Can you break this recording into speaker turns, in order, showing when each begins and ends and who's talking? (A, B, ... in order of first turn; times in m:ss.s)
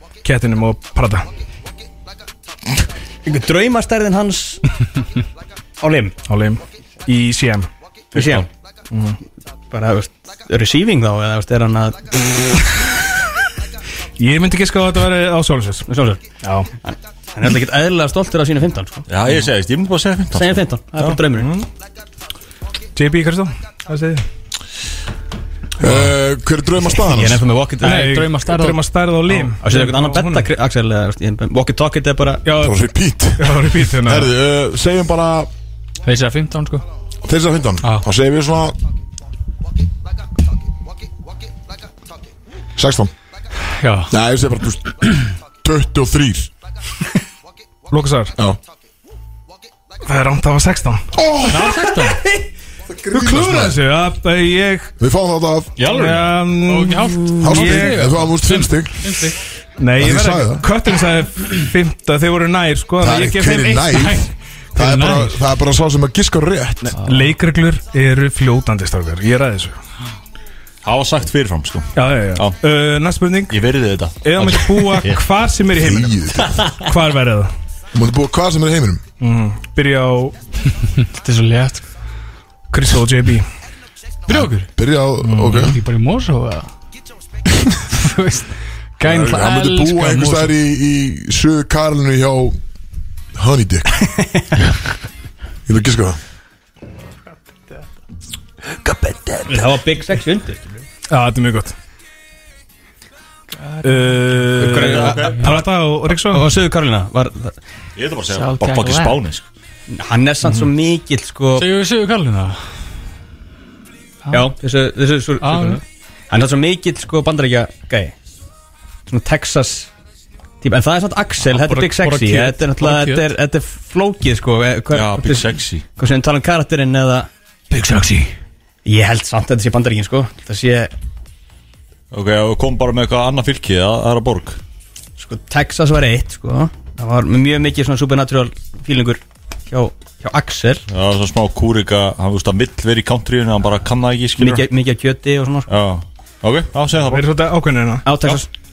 0:00.2-0:01.2 A
0:03.2-0:04.6 B
0:05.8-0:06.1 B
0:06.3-0:07.7 A
0:08.1-0:08.4 B
0:08.1-0:08.4 C
0:08.9-0:09.2 A
0:09.7-0:12.2 B
0:14.2-0:15.9 A
0:15.9-0:16.2 B
0:16.4-0:16.7 A
0:16.8-0:19.1 B
0:19.1-0:21.1 C
0:20.3-0:21.5 B
0:21.1-0:21.7 A
0:22.9-0:24.2 A
0:25.8-0:27.4 D
0:27.0-0:28.2 B
0:27.8-0:29.4 E
0:27.8-0:30.5 A
0:29.6-0:32.4 B
0:32.4-0:32.8 A
0:32.5-0:35.5 D
0:33.4-0:34.3 A
0:36.0-0:36.8 E
0:37.2-0:38.8 D
0:42.8-0:43.1 D
0:43.8-0:44.1 E
0:44.1-0:45.0 D
0:45.6-0:46.5 D
0:47.9-0:48.3 A
0:50.0-0:51.0 A
0:51.1-0:51.8 D
0:51.5-0:52.3 E
0:52.9-0:53.8 D
0:53.1-0:54.9 A
0:55.0-0:55.8 D
0:55.8-0:56.2 C
0:55.8-0:59.4 E
0:55.8-0:58.1 A
0:57.4-0:59.3 D
0:59.8-1:04.2 A
1:00.0-1:00.6 D
1:03.0-1:07.0 D
1:03.9-1:04.2 E
1:04.7-1:05.4 E
1:07.0-1:09.8 A
1:07.0-1:07.3 E
1:10.8-1:12.6 C
1:12.0-1:13.6 A
1:13.5-1:15.2 C
1:14.2-1:17.5 A
1:15.8-1:16.6 D
1:17.9-1:19.0 D
1:19.2-1:20.3 A
1:21.0-1:21.8 E
1:22.7-1:23.5 A
1:24.3-1:24.7 E
1:24.3-1:25.8 D
1:25.2-1:25.7 A
1:25.5-1:26.7 E
1:27.9-1:30.6 E
1:29.0-1:32.6 D
1:33.3-1:33.9 D
1:34.2-1:34.4 B
1:35.7-1:36.2 D
1:38.9-1:39.3 E
1:39.4-1:40.8 B
1:41.1-1:41.7 A
1:43.5-1:44.5 E
1:43.8-1:46.5 A
1:44.6-1:47.6 B
1:44.7-1:45.6 C
1:48.0-1:49.4 C
1:48.3-1:49.2 E
1:49.9-1:51.7 B
1:51.5-1:52.6 E
1:54.2-1:54.5 E
1:54.3-1:58.1 B
1:55.4-1:55.8 E
1:59.1-1:59.9 B
2:00.6-2:07.3 B
2:01.4-2:03.3 E
2:04.9-2:05.8 C
2:07.7-2:08.3 E
2:08.8-2:10.9 B
2:12.1-2:14.6 C
2:15.2-2:20.8 B
2:20.9-2:24.7 C
2:24.4-2:25.7 B
2:25.7-2:27.3 C
2:27.0-2:28.4 A
2:28.0-2:28.5 B